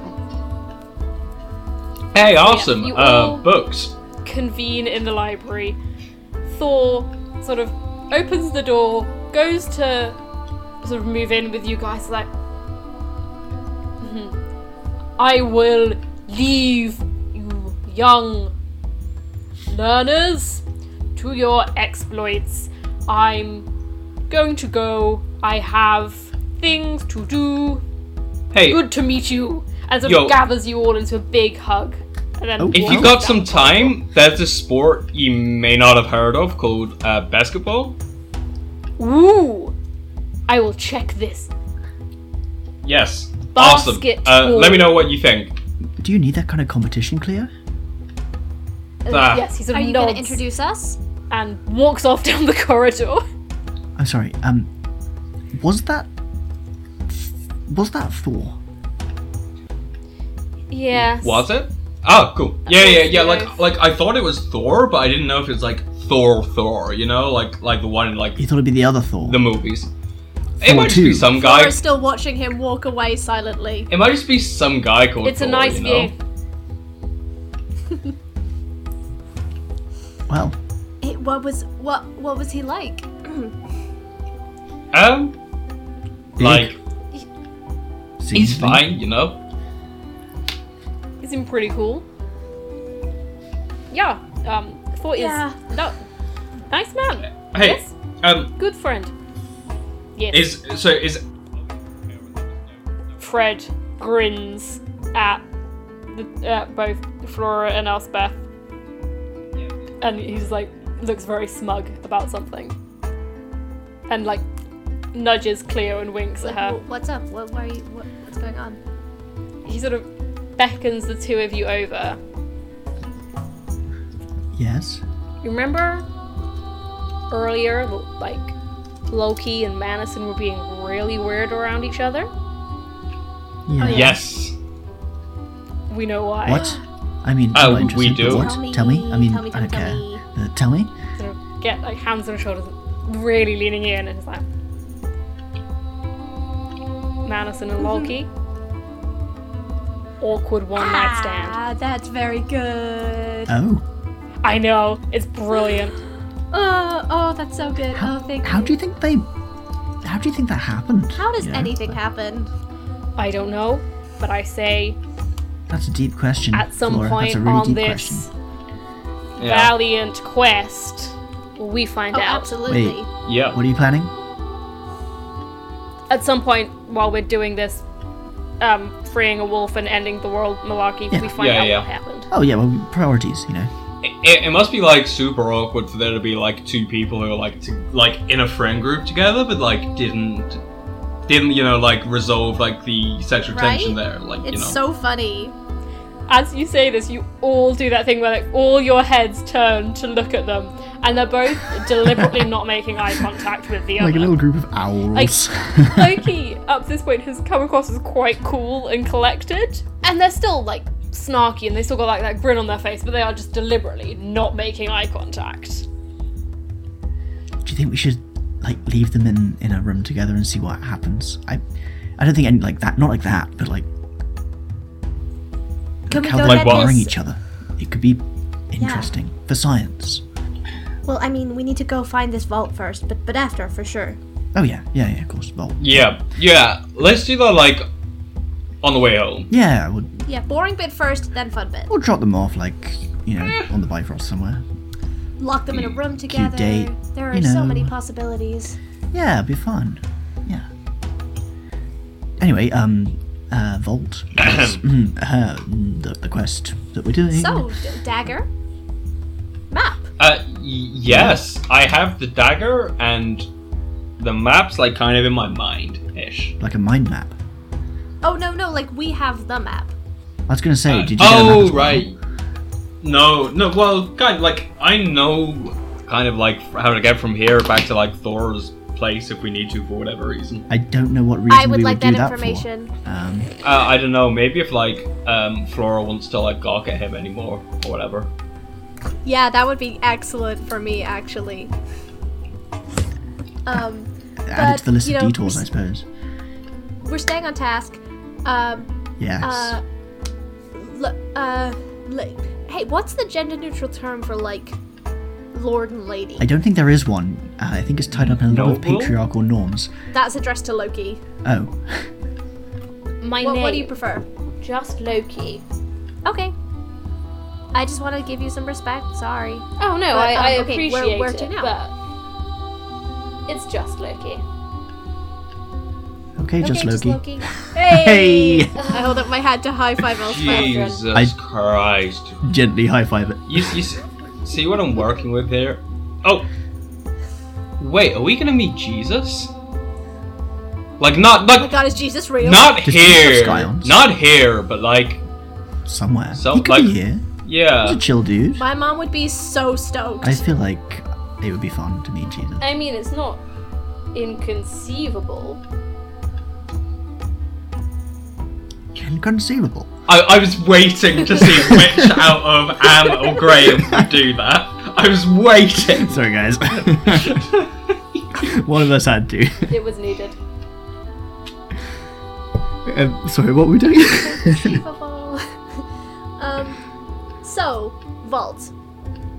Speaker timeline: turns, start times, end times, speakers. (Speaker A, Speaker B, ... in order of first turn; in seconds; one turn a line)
Speaker A: 2.1-3.9
Speaker B: 2.4-3.5
Speaker B: 4.2-5.8
Speaker B: 6.5-10.2
Speaker B: 10.8-12.3
Speaker B: 14.0-14.4
Speaker B: 15.2-18.5
Speaker B: 19.7-20.6
Speaker B: 21.2-23.7
Speaker B: 24.3-27.8
Speaker A: 28.5-28.8
Speaker B: 28.7-34.0
Speaker A: 30.0-30.4
Speaker C: 32.6-33.2
Speaker A: 32.7-38.0
Speaker B: 39.0-39.8
Speaker B: 40.5-41.5
Speaker A: 42.8-45.6
Speaker B: 43.5-45.0
Speaker C: 46.0-47.5
Speaker A: 49.1-49.5
Speaker B: 49.1-50.4
Speaker D: 49.1-51.0
Speaker B: 51.3-53.2
Speaker C: 54.0-54.7
Speaker C: 55.5-56.1
Speaker C: 57.1-58.6
Speaker B: 60.7-61.5
Speaker A: 61.0-68.4
Speaker B: 62.7-63.6
Speaker C: 68.4-69.4
Speaker A: 69.2-69.9
Speaker A: 70.6-71.8
Speaker C: 70.6-71.3
Speaker D: 71.3-73.9
Speaker A: 73.9-76.1
Speaker B: 75.2-76.2
Speaker C: 80.3-80.6
Speaker D: 81.0-83.5
Speaker A: 84.9-85.3
Speaker A: 86.4-86.8
Speaker C: 86.4-86.8
Speaker C: 88.2-88.9
Speaker A: 88.3-89.4
Speaker B: 91.2-92.1
Speaker B: 93.9-96.0
Speaker D: 95.2-95.6
Speaker B: 96.7-97.9
Speaker A: 97.4-98.5
Speaker B: 98.6-99.1
Speaker B: 100.2-100.5
Speaker A: 100.3-101.2
Speaker B: 103.2-105.4
Speaker B: 106.1-108.4
Speaker B: 110.0-112.8
Speaker B: 114.1-114.5
Speaker B: 115.1-116.8
Speaker D: 116.4-118.8
Speaker B: 119.7-120.1
Speaker B: 120.6-122.2
Speaker C: 124.5-125.0
Speaker B: 125.4-126.1
Speaker B: 127.3-128.6
Speaker B: 129.1-132.3
Speaker C: 133.7-134.2
Speaker D: 133.8-134.2
Speaker A: 133.8-134.5
Speaker B: 135.9-136.8
Speaker C: 136.4-140.9
Speaker D: 136.5-136.8
Speaker A: 137.5-138.6
Speaker D: 138.2-140.2
Speaker B: 141.2-144.4
Speaker B: 147.2-148.3
Speaker D: 147.8-148.1
Speaker B: 150.2-151.6
Speaker D: 150.8-153.5
Speaker C: 153.5-153.8
Speaker B: 154.4-156.0
Speaker D: 156.5-158.7
Speaker C: 157.9-159.3
Speaker C: 160.0-161.9
Speaker D: 161.2-162.5
Speaker B: 163.2-165.0
Speaker C: 165.7-168.3
Speaker B: 166.5-168.3
Speaker B: 169.4-172.5
Speaker A: 169.4-169.7
Speaker D: 172.1-173.1
Speaker C: 172.7-174.1
Speaker A: 173.3-173.6
Speaker B: 176.1-177.8
Speaker B: 178.6-182.3
Speaker A: 181.4-181.9
Speaker C: 182.3-183.7
Speaker A: 184.0-190.6
Speaker A: 191.3-194.8
Speaker D: 193.5-195.5
Speaker B: 196.3-204.3
Speaker C: 202.2-202.4
Speaker C: 204.0-206.2
Speaker B: 205.1-215.9
Speaker C: 217.6-221.6
Speaker C: 222.2-223.9
Speaker C: 226.1-230.2
Speaker D: 226.1-227.1
Speaker A: 226.4-227.0
Speaker D: 228.8-229.1
Speaker D: 231.1-234.2
Speaker C: 234.5-236.1
Speaker A: 235.8-237.9
Speaker A: 238.8-239.5
Speaker C: 239.5-240.3
Speaker D: 240.3-241.9
Speaker C: 241.9-244.7
Speaker A: 243.4-243.7
Speaker D: 245.4-248.8
Speaker C: 246.3-247.9
Speaker C: 249.1-250.7
Speaker C: 252.4-257.7
Speaker A: 254.4-254.8
Speaker D: 257.3-258.5
Speaker D: 259.7-260.1
Speaker A: 260.2-263.5
Speaker C: 261.1-261.4
Speaker A: 264.2-266.6
Speaker C: 266.6-267.4
Speaker D: 268.2-269.9
Speaker C: 270.5-272.1
Speaker A: 270.9-272.2
Speaker A: 273.0-280.7
Speaker C: 280.7-283.5
Speaker D: 281.5-282.9
Speaker A: 283.6-288.3
Speaker D: 289.2-291.7
Speaker D: 293.7-295.6
Speaker C: 294.5-296.1
Speaker D: 297.0-299.8
Speaker C: 299.2-299.8
Speaker D: 300.8-304.8
Speaker D: 305.5-306.5
Speaker C: 306.4-309.9
Speaker A: 308.1-309.2
Speaker D: 310.1-311.2
Speaker C: 311.4-312.1
Speaker B: 313.2-314.0
Speaker D: 313.4-314.3
Speaker B: 314.6-315.6
Speaker D: 316.2-316.5
Speaker D: 317.7-321.7
Speaker B: 319.8-321.9
Speaker B: 323.5-324.4
Speaker C: 326.4-327.2
Speaker D: 326.6-331.0
Speaker C: 327.7-328.8
Speaker A: 330.2-332.4
Speaker C: 332.4-333.8
Speaker A: 333.5-336.5
Speaker A: 337.8-339.5
Speaker A: 341.0-341.8
Speaker D: 341.6-342.9
Speaker A: 342.4-345.2
Speaker C: 342.8-344.1
Speaker C: 345.9-347.3
Speaker A: 346.3-348.0
Speaker C: 347.8-348.6
Speaker D: 348.6-350.4
Speaker C: 350.2-352.7
Speaker B: 352.6-353.4
Speaker B: 354.1-355.6
Speaker C: 358.9-359.9
Speaker A: 360.1-366.1
Speaker C: 361.5-362.3
Speaker C: 363.8-364.1
Speaker C: 366.0-367.5
Speaker A: 366.9-368.2
Speaker C: 368.4-369.8
Speaker B: 369.7-370.4
Speaker C: 372.9-374.8
Speaker D: 374.0-375.9
Speaker D: 376.4-376.9
Speaker D: 377.4-378.7